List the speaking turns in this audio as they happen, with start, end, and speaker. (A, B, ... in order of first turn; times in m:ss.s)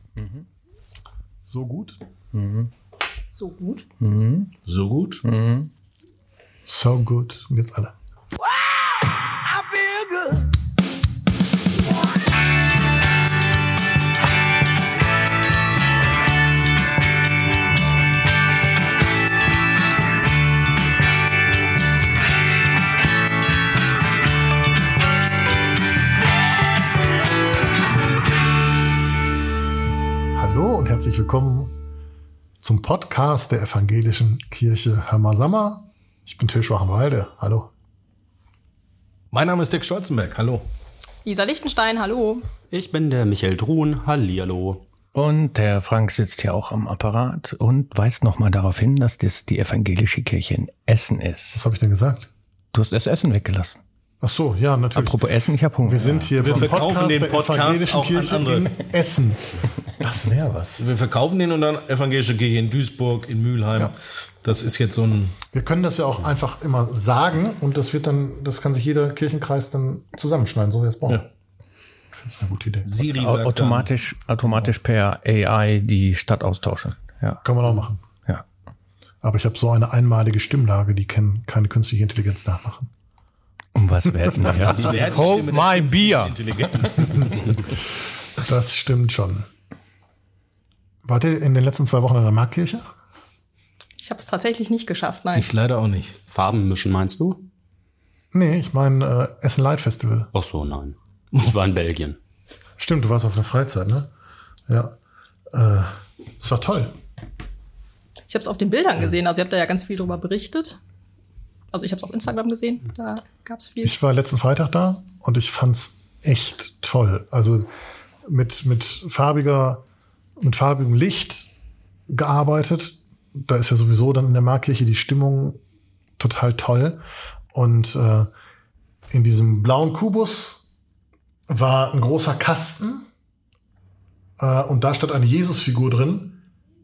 0:00.2-0:00.4 A
0:01.5-0:02.0 B
0:02.3-0:02.7 A
0:03.4-0:03.8 C
0:04.0-0:04.5 A
0:04.6-0:05.2 D
0:05.2-0:05.7 A
0:06.7-0:08.0 B
0:09.5-0:10.4 A
0:30.3-0:31.7 B
0:32.6-0:37.7 B
0:39.3-0:40.7 D
0:41.2-0:42.4 C
0:42.7-0:44.8 E
0:45.1-0:51.6 A
0:51.5-0:52.3 B
0:52.7-0:53.8 A
0:54.2-0:55.2 B
0:55.0-0:56.7 A
0:55.8-0:59.4 B
0:56.4-0:58.7 D
1:00.0-1:00.9 B
1:00.8-1:05.4 D
1:05.5-1:11.3 B
1:12.1-1:12.9 B
1:12.8-1:13.9 D
1:13.1-1:17.4 A
1:14.4-1:14.7 B
1:17.4-1:18.0 B
1:19.2-1:22.9 B
1:23.8-1:27.2 A
1:24.4-1:27.7 D
1:28.4-1:29.5 B
1:31.0-1:32.9 B
1:34.0-1:35.5 C
1:35.3-1:36.2 D
1:36.3-1:37.4 E
1:38.3-1:40.3 B
1:40.3-1:42.2 E
1:42.8-1:44.1 B
1:44.7-1:45.0 B
1:45.5-1:47.0 B
1:48.3-1:50.8 C
1:51.7-1:54.0 C
1:53.8-1:57.7 B
1:58.2-1:59.8 B
2:00.4-2:01.5 B
2:02.1-2:05.6 B
2:06.2-2:07.0 B
2:07.5-2:08.3 B
2:09.1-2:10.7 B
2:11.5-2:13.1 B
2:14.4-2:16.4 B